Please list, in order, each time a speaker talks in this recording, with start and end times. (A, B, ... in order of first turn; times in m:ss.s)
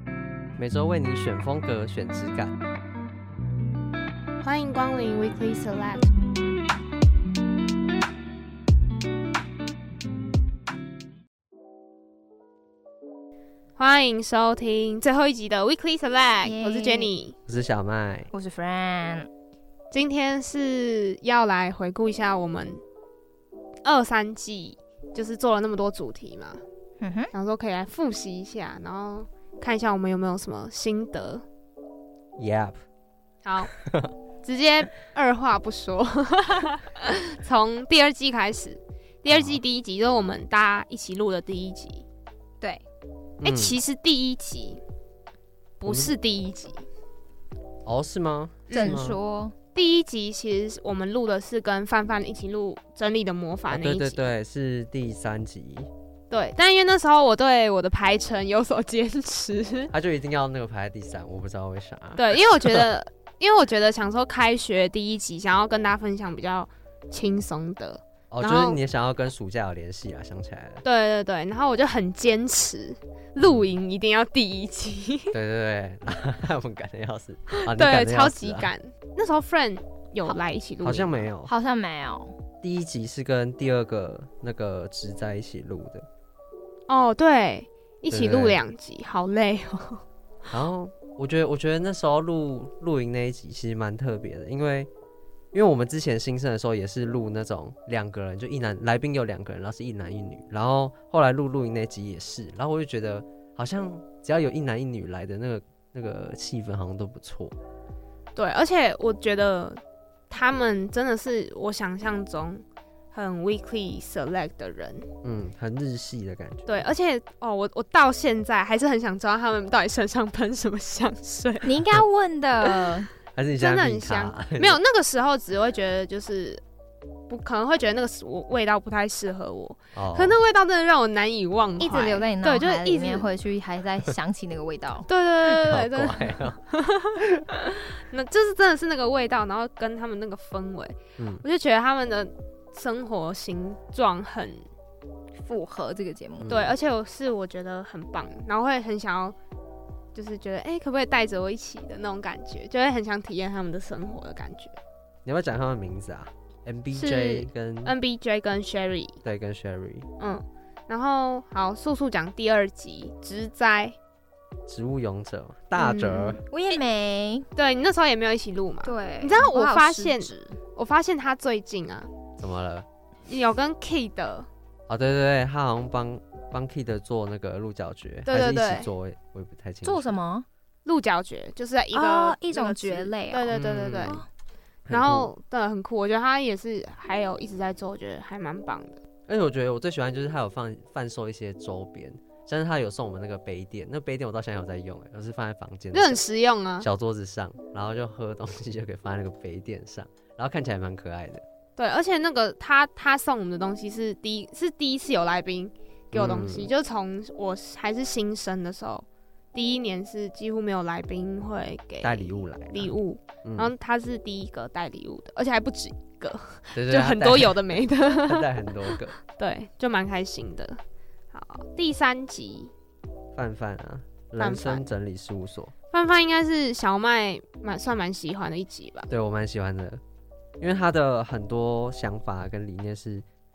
0:00.6-0:02.5 A
0:04.4-0:06.1 B
0:13.8-0:17.4 B
0:16.4-0:17.1 C
0:17.5-0:18.3 A
0:18.3-0:19.3 C
0:19.9-0:22.8 B
0:23.8-0:26.6 B
0:27.0-0:27.3 C
0:27.3-0:31.4 B
0:32.4-0:32.8 A
0:33.4-0:33.7 B
0:33.7-0:34.1 A
0:34.4-0:42.0 B
0:39.3-0:39.6 A
0:43.4-0:43.8 A
0:43.4-0:44.8 B
0:45.8-0:46.8 B
0:45.8-0:46.1 A
0:47.8-0:49.2 A
0:48.7-0:49.0 B
0:48.7-0:49.5 C
0:49.7-0:54.2 B
0:53.7-0:55.9 A
0:56.3-0:59.9 B
0:59.9-1:02.9 A
1:02.2-1:08.8 B
1:08.3-1:10.8 A
1:10.8-1:15.4 B
1:13.4-1:13.7 A
1:15.3-1:18.7 A
1:17.5-1:21.2 B
1:20.8-1:21.5 A
1:21.4-1:22.3 C
1:22.6-1:26.0 A
1:26.9-1:30.0 B
1:28.1-1:28.6 A
1:30.5-1:34.9 A
1:35.5-1:47.5 A
1:48.4-1:55.1 B
1:55.2-1:56.7 A
1:56.6-2:01.7 B
2:01.6-2:03.1 C
2:03.3-2:04.8 A
2:03.6-2:06.6 B
2:07.3-2:13.3 B
2:09.9-2:10.4 A
2:11.8-2:15.1 C
2:15.1-2:17.2 B
2:15.4-2:16.6 A
2:18.1-2:24.6 B
2:21.2-2:21.4 A
2:25.4-2:26.5 C
2:26.4-2:26.7 A
2:26.5-2:29.4 B
2:30.1-2:34.8 B
2:35.2-2:37.9 A
2:37.0-2:37.4 C
2:37.8-2:39.2 B
2:39.2-2:40.1 A
2:40.2-2:44.0 B
2:44.7-2:46.4 A
2:45.7-2:46.8 B
2:46.5-2:47.5 C
2:47.6-2:52.1 B
2:48.8-2:50.6 C
2:52.4-2:52.9 A
2:53.3-2:54.5 B
2:54.9-3:00.2 A
2:58.2-2:58.9 B
2:59.8-3:00.4 C
3:00.8-3:04.2 B
3:01.9-3:04.2 C
3:03.5-3:04.2 A
3:04.8-3:05.3 A
3:04.9-3:09.0 B
3:09.3-3:16.2 A
3:15.9-3:16.9 B
3:16.8-3:21.4 A
3:21.8-3:40.8 B
3:26.1-3:26.7 A
3:32.0-3:33.7 A
3:36.7-3:39.2 A
3:41.3-3:42.7 B
3:43.3-3:45.7 A
3:44.4-3:44.8 B
3:45.9-3:49.1 B
3:49.1-3:50.0 A
3:50.6-3:53.2 A